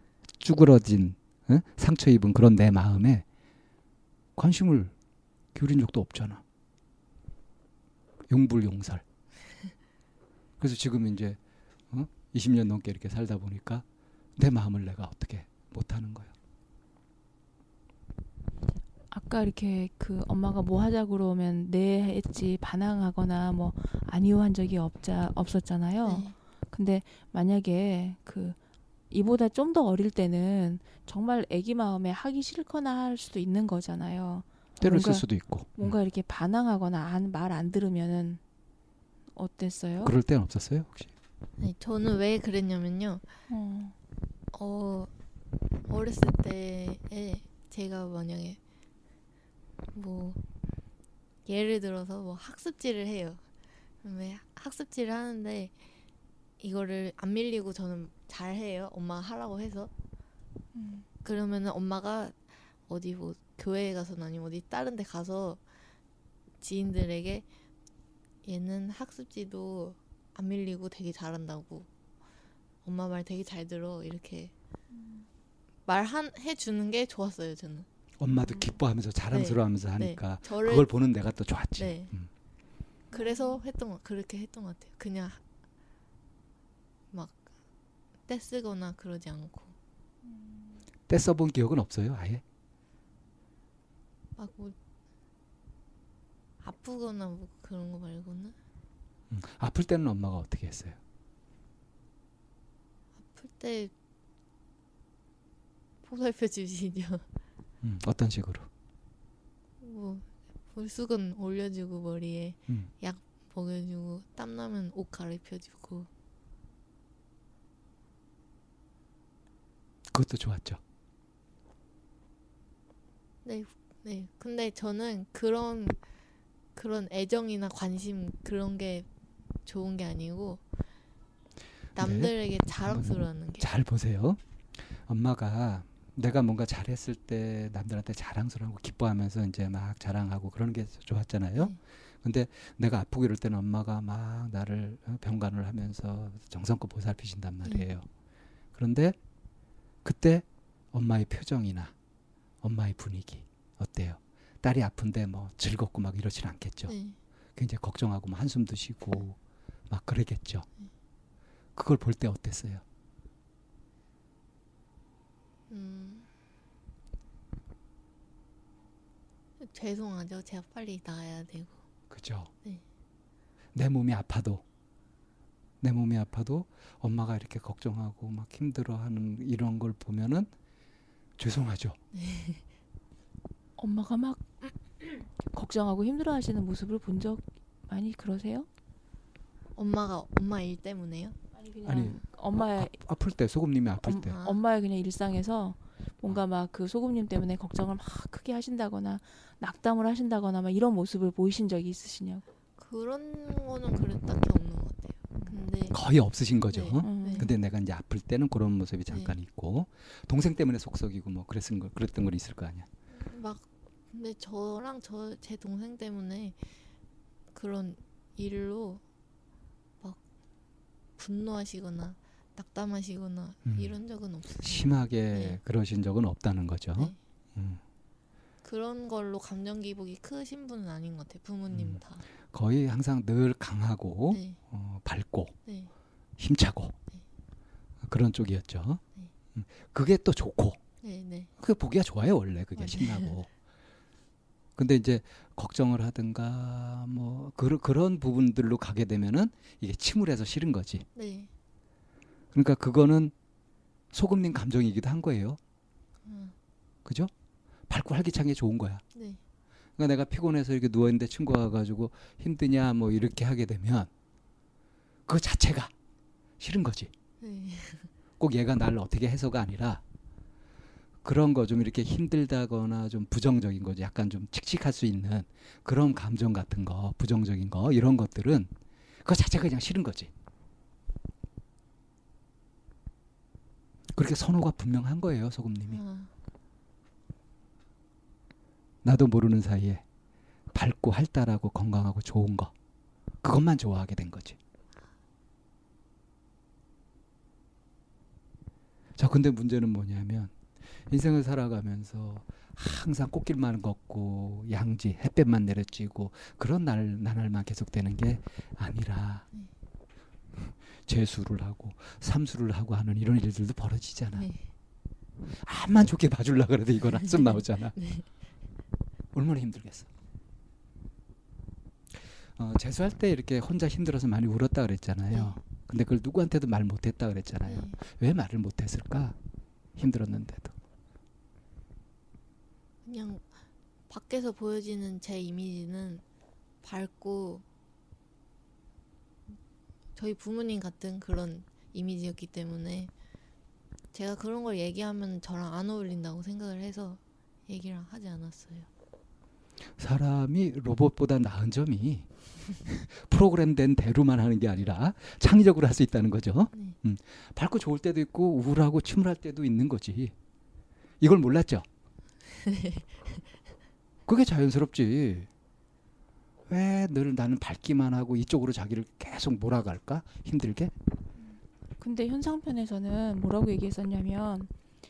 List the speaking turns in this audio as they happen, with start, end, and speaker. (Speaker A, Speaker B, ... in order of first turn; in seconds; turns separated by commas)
Speaker A: 0.4-3.2, Speaker A: 4.4-4.9, Speaker A: 5.5-6.4, Speaker A: 8.3-9.0, Speaker A: 10.6-11.4, Speaker A: 11.9-13.8, Speaker A: 14.4-16.3, Speaker B: 19.1-28.6, Speaker C: 26.0-26.4, Speaker B: 29.1-38.4, Speaker A: 34.8-35.9, Speaker B: 39.4-40.1, Speaker A: 40.0-41.1, Speaker C: 41.6-43.3, Speaker B: 43.5-44.0, Speaker C: 44.5-45.1, Speaker C: 45.9-48.6, Speaker C: 49.9-50.4, Speaker C: 51.5-53.4, Speaker C: 54.0-55.7, Speaker C: 56.6-59.9, Speaker B: 60.7-61.1, Speaker C: 61.2-65.6, Speaker C: 66.6-67.5, Speaker C: 68.4-71.9, Speaker C: 72.8-74.5, Speaker C: 75.9-77.9, Speaker A: 78.2-82.3, Speaker C: 79.3-80.9, Speaker C: 81.8-82.1, Speaker C: 83.1-85.4, Speaker B: 83.2-83.5, Speaker C: 87.1-87.4, Speaker C: 88.3-89.8, Speaker A: 91.1-92.4, Speaker C: 94.4-94.8, Speaker C: 96.6-98.5, Speaker A: 99.3-101.0, Speaker C: 103.3-103.9, Speaker C: 106.0-107.2, Speaker A: 107.8-108.7, Speaker C: 109.8-116.1, Speaker A: 120.1-120.8, Speaker C: 123.5-126.0, Speaker C: 126.8-129.1, Speaker C: 129.7-130.6, Speaker C: 131.9-133.7, Speaker A: 132.0-148.1, Speaker A: 148.7-149.2, Speaker A: 150.0-151.9, Speaker A: 152.6-157.0, Speaker C: 156.9-157.2, Speaker A: 157.6-159.4, Speaker A: 159.9-160.7, Speaker A: 161.8-162.8, Speaker C: 165.7-166.3, Speaker C: 169.6-171.8, Speaker A: 172.1-172.5, Speaker A: 173.7-174.6, Speaker A: 175.8-180.5, Speaker A: 181.4-182.0, Speaker C: 182.1-182.6, Speaker B: 183.8-188.7, Speaker C: 189.8-191.4, Speaker B: 191.6-193.0, Speaker A: 191.9-194.4, Speaker B: 194.1-202.4, Speaker C: 194.2-194.6, Speaker C: 202.8-206.0, Speaker A: 205.9-212.9, Speaker C: 206.7-207.5, Speaker B: 207.0-207.5, Speaker C: 209.1-209.4, Speaker C: 213.1-216.6, Speaker C: 217.5-219.0, Speaker C: 221.2-225.6, Speaker A: 223.7-223.9, Speaker A: 224.6-227.8, Speaker C: 228.6-232.2, Speaker A: 231.7-232.0, Speaker A: 232.5-235.6, Speaker C: 234.3-234.6, Speaker A: 236.4-237.0, Speaker A: 238.0-239.0, Speaker A: 239.6-240.8, Speaker C: 241.0-241.5, Speaker A: 241.6-243.5, Speaker C: 242.8-243.3, Speaker A: 244.8-251.1, Speaker C: 251.2-251.5, Speaker A: 252.5-253.3, Speaker A: 254.1-255.6, Speaker C: 256.2-256.5, Speaker A: 257.1-257.3, Speaker A: 257.9-259.0, Speaker C: 259.1-259.4, Speaker A: 260.0-264.1, Speaker A: 265.3-265.9, Speaker A: 266.6-267.1, Speaker C: 267.4-268.1, Speaker A: 268.4-270.0, Speaker A: 271.2-278.7, Speaker A: 279.2-280.3, Speaker A: 284.1-286.0, Speaker C: 285.9-286.3, Speaker A: 289.0-290.0, Speaker A: 290.7-292.7, Speaker A: 293.4-294.6, Speaker A: 299.2-309.4, Speaker A: 310.6-314.5, Speaker A: 315.5-318.0, Speaker C: 317.4-318.2, Speaker A: 319.3-320.1, Speaker A: 322.6-329.4, Speaker C: 325.3-325.6, Speaker C: 327.7-328.0, Speaker A: 330.0-330.7, Speaker C: 333.1-333.4, Speaker C: 334.1-336.2, Speaker C: 336.8-337.6, Speaker C: 340.2-343.1, Speaker C: 344.1-348.9, Speaker A: 350.0-360.3, Speaker A: 361.2-361.9, Speaker C: 362.6-363.4, Speaker A: 364.3-365.5, Speaker A: 366.7-370.9, Speaker B: 372.0-374.7